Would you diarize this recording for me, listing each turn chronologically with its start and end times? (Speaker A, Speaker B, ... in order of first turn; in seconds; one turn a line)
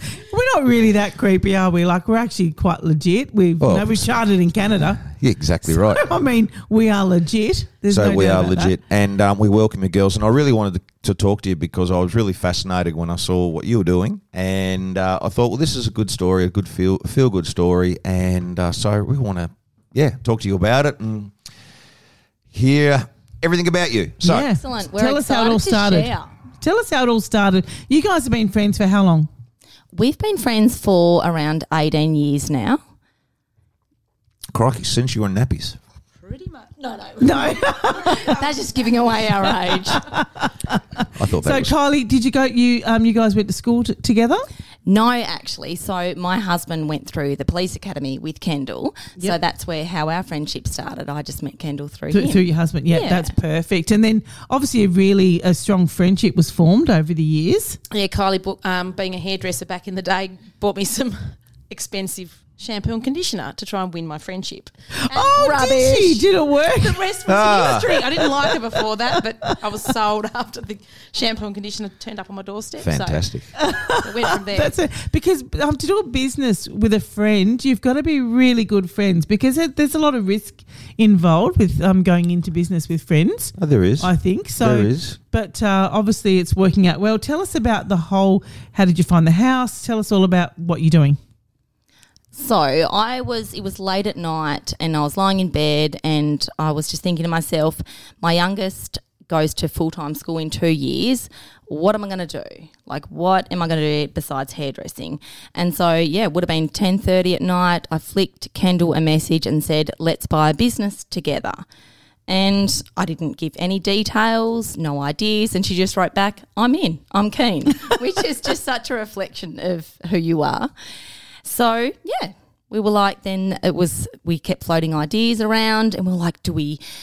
Speaker A: 0.1-5.0
Speaker B: 3.6-4.1
Speaker B: 5.0-6.0
Speaker A: 5.7-8.8
Speaker B: 7.9-21.3
Speaker B: 22.5-24.5
Speaker A: 24.2-29.3
Speaker C: 24.4-26.3
Speaker C: 29.9-32.8
Speaker B: 34.5-35.8
Speaker D: 36.2-37.7
Speaker A: 37.2-38.4
Speaker C: 38.0-40.0
Speaker A: 39.6-44.5
Speaker B: 41.1-41.7
Speaker C: 44.9-53.3
Speaker A: 52.1-57.8
Speaker D: 57.9-73.3
Speaker A: 64.9-67.0
Speaker B: 67.2-68.1
Speaker A: 69.1-69.5
Speaker B: 72.8-73.5
Speaker A: 73.6-91.2
Speaker D: 73.9-74.7
Speaker B: 83.6-85.2
Speaker C: 92.3-111.6
Speaker C: 112.3-120.7
Speaker C: 121.4-126.8